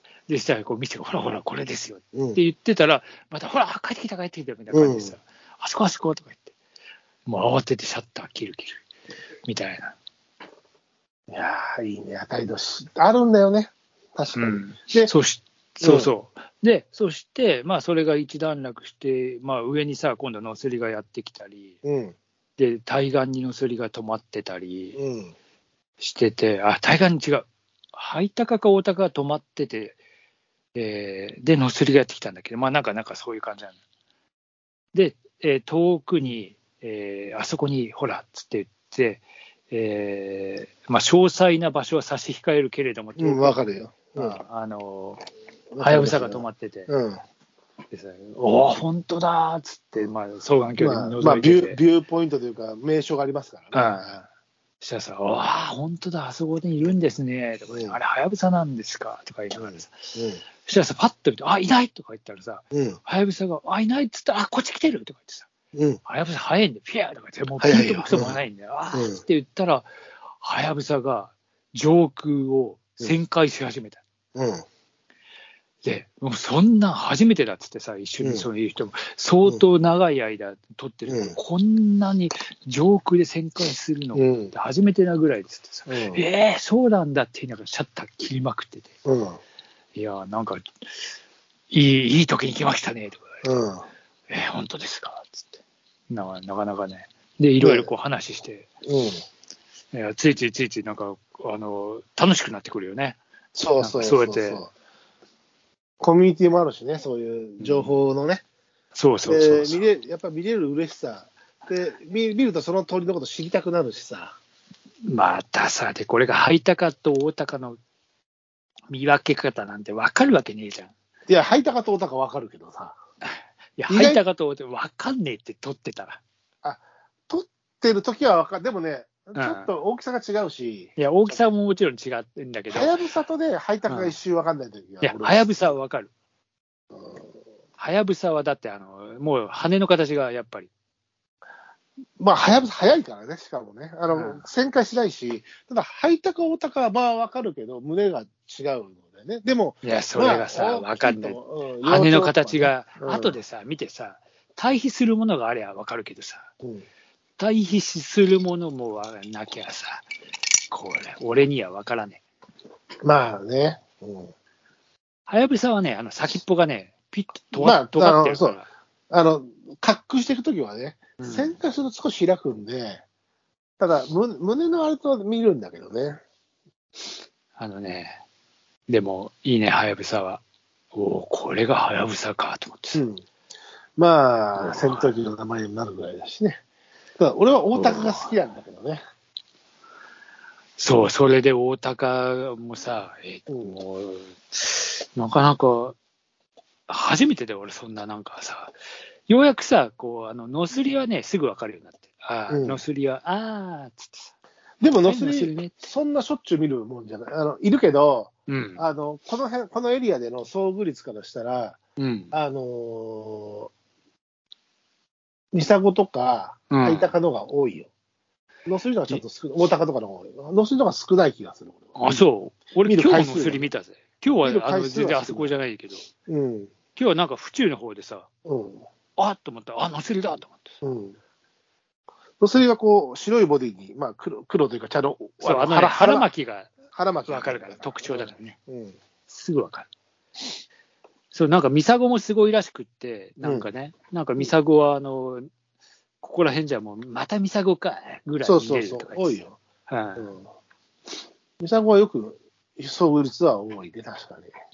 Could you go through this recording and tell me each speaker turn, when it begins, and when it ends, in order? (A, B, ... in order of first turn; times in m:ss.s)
0:00.3-0:06.5 A
0:02.1-0:02.4 B
0:04.7-0:05.1 B
0:07.2-0:08.8 A
0:09.5-0:09.9 A
0:11.3-0:15.1 B
0:14.3-0:21.8 A
0:15.8-0:16.1 B
0:21.8-0:22.2 B
0:22.6-0:25.0 A
0:25.0-0:25.3 B
0:26.0-0:30.0 A
0:30.7-0:33.8 A
0:34.9-0:43.6 A
0:43.2-0:44.4 B
0:44.1-0:45.2 A
0:45.7-0:47.2 B
0:45.8-0:46.9 A
0:47.9-0:51.8 A
0:50.8-0:54.2 B
0:53.7-0:54.2 A
0:54.8-1:05.5 A
0:57.7-0:58.0 B
0:59.6-1:00.4 B
1:02.7-1:03.0 B
1:05.7-1:06.0 B
1:06.0-1:09.9 A
1:07.6-1:08.4 B
1:08.9-1:09.2 B
1:10.4-1:14.0 A
1:14.3-1:14.6 B
1:15.8-1:28.9 A
1:21.0-1:21.4 B
1:24.1-1:24.5 B
1:25.9-1:26.2 B
1:29.0-1:29.4 B
1:30.0-1:30.7 A
1:31.7-1:33.4 A
1:33.4-1:33.8 B
1:34.3-1:35.5 A
1:36.1-1:38.7 A
1:37.6-1:37.9 B
1:38.8-1:39.2 B
1:39.9-1:43.2 A
1:43.5-1:44.7 B
1:43.8-1:44.6 A
1:46.0-1:48.4 B
1:47.6-1:47.9 A
1:48.9-1:49.8 A
1:49.3-1:54.4 B
1:55.0-1:57.8 A
1:58.9-2:00.9 A
2:01.3-2:03.0 B
2:03.4-2:06.2 A
2:03.9-2:04.2 B
2:06.6-2:10.9 B
2:09.4-2:09.7 A
2:11.0-2:13.0 A
2:12.7-2:15.5 B
2:13.9-2:14.1 A
2:15.0-2:16.1 A
2:16.9-2:17.2 B
2:17.8-2:20.7 A
2:22.2-2:33.4 B
2:24.1-2:24.4 A
2:29.8-2:36.5 A
2:37.4-2:40.0 A
2:40.7-2:42.2 A
2:43.0-2:44.3 B
2:45.3-2:48.7 A
2:47.5-2:53.0 B
2:51.2-2:51.6 A
2:53.8-2:56.2 B
2:57.6-2:58.2 A
2:58.9-3:03.0 A
3:02.9-3:03.2 B
3:04.0-3:06.6 B
3:04.6-3:05.1 A
3:07.2-3:09.0 B
3:07.7-3:08.3 A
3:10.8-3:16.0 A
3:13.5-3:13.8 B
3:16.9-3:18.7 A
3:19.3-3:24.3 A
3:22.5-3:22.8 B
3:24.8-3:31.8 B
3:25.0-3:25.7 A
3:28.5-3:28.8 A
3:32.0-3:32.3 A
3:32.3-3:33.7 B
3:35.5-3:37.9 B
3:36.7-3:37.1 A
3:38.7-3:42.2 B
3:42.0-3:46.0 A
3:42.8-3:43.7 B
3:44.4-3:45.5 B
3:46.3-3:46.7 B
3:46.9-3:48.3 A
3:48.4-3:48.8 B
3:49.2-3:50.7 A
3:50.8-3:51.2 B
3:52.4-3:56.3 B
3:55.4-3:56.7 A
3:56.9-3:59.0 B
3:57.3-3:58.6 A
3:59.3-3:59.9 A
4:01.3-4:05.5 A
4:03.4-4:03.7 B
4:06.2-4:10.3 A
4:08.4-4:09.6 B
4:10.2-4:10.5 B
4:11.6-4:14.5 B